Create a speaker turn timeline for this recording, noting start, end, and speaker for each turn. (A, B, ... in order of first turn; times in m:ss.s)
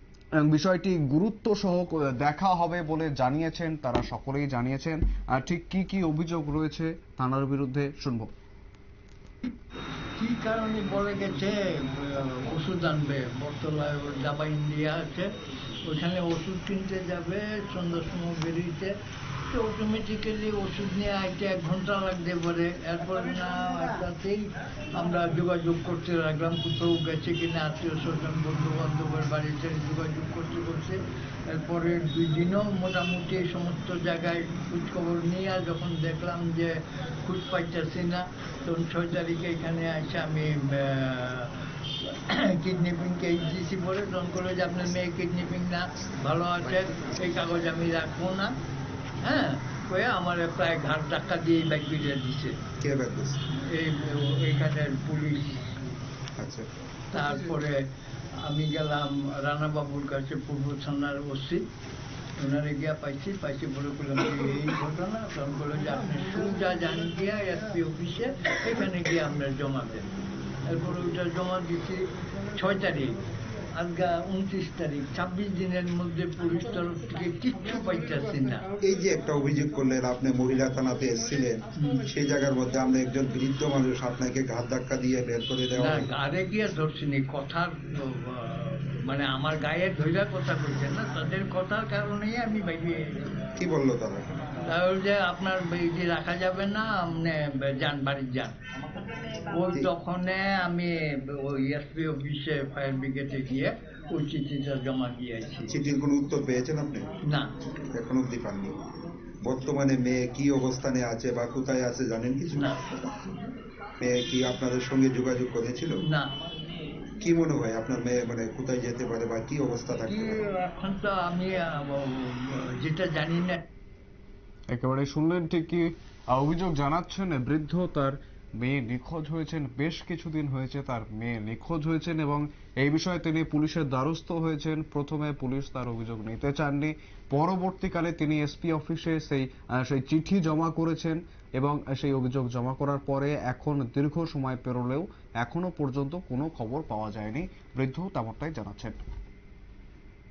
0:00.4-0:08.3 A
0:10.2-0:15.3 B
0:15.8-0:18.9 B
0:19.5-0:48.5 B
0:49.2-0:52.6 B
0:52.8-0:53.4 C
0:53.5-0:55.8 B
0:56.4-0:56.7 C
0:57.1-0:57.8 B
0:58.4-1:01.6 B
1:02.4-1:10.1 B
1:10.6-1:13.2 B
1:13.7-1:18.7 B
1:18.8-1:26.1 C
1:21.7-1:22.1 B
1:25.7-1:33.3 B
1:33.6-1:34.3 C
1:34.6-1:38.5 B
1:39.5-1:45.7 B
1:45.7-1:47.1 C
1:47.2-1:47.5 B
1:47.9-1:48.7 C
1:49.4-1:52.8 C
1:52.5-1:52.8 B
1:54.0-1:56.0 C
1:56.0-1:56.3 B
1:57.2-2:00.4 C
2:00.0-2:03.6 B
2:04.7-2:29.0 A